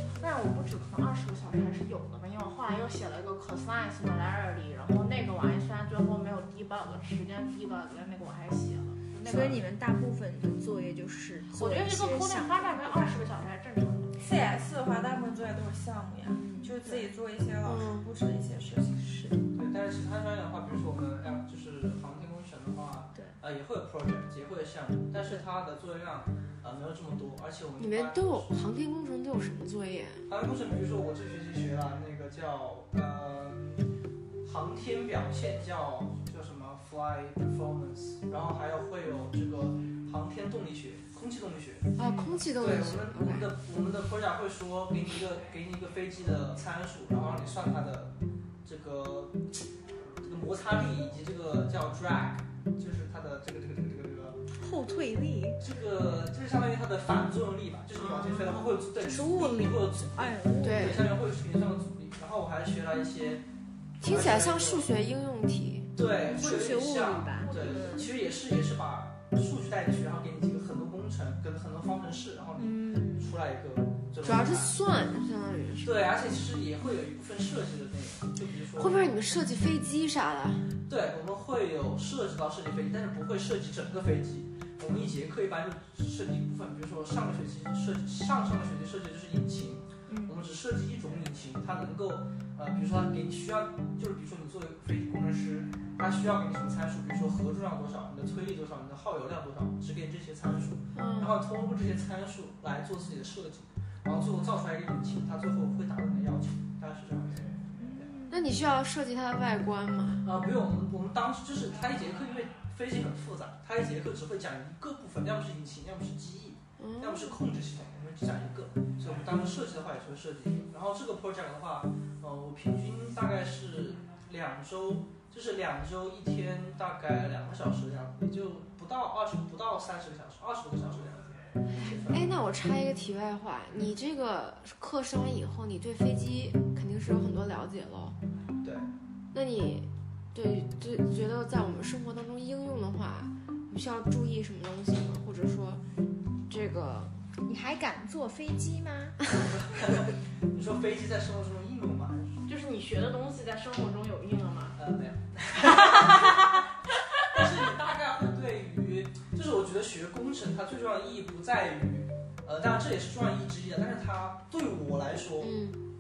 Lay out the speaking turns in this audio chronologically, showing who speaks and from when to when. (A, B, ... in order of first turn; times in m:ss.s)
0:00.1-0:09.6 A
0:09.2-0:13.1 B
0:11.5-0:14.1 A
0:14.2-0:19.4 C
0:16.4-0:17.1 B
0:17.6-0:18.0 D
0:19.5-0:28.6 E
0:27.8-0:30.3 D
0:30.3-0:33.9 E
0:34.4-0:41.9 E
0:42.0-0:43.5 D
0:42.6-0:48.1 E
0:48.6-0:49.6 E
0:50.2-0:54.4 E
0:54.6-0:55.6 B
0:55.6-1:03.4 E
0:58.0-1:01.0 B
1:00.6-1:01.1 D
1:04.0-1:04.8 E
1:04.0-1:05.9 D
1:06.0-1:14.7 E
1:06.3-1:08.1 B
1:07.4-1:08.1 A
1:12.6-1:13.4 B
1:14.2-1:16.1 D
1:15.8-1:19.2 E
1:18.8-1:20.7 D
1:20.9-1:48.1 E
1:30.1-1:30.3 B
1:40.9-1:41.4 D
1:47.8-1:48.3 B
1:48.3-1:50.2 D
1:50.2-2:12.3 E
1:56.8-1:57.4 D
2:12.1-2:18.2 D
2:19.3-2:25.8 D
2:26.5-2:27.2 D
2:27.4-2:29.2 B
2:29.3-2:32.4 E
2:32.5-2:34.8 A
2:34.8-2:36.6 E
2:35.8-2:36.4 A
2:37.3-2:45.5 E
2:45.4-2:45.8 D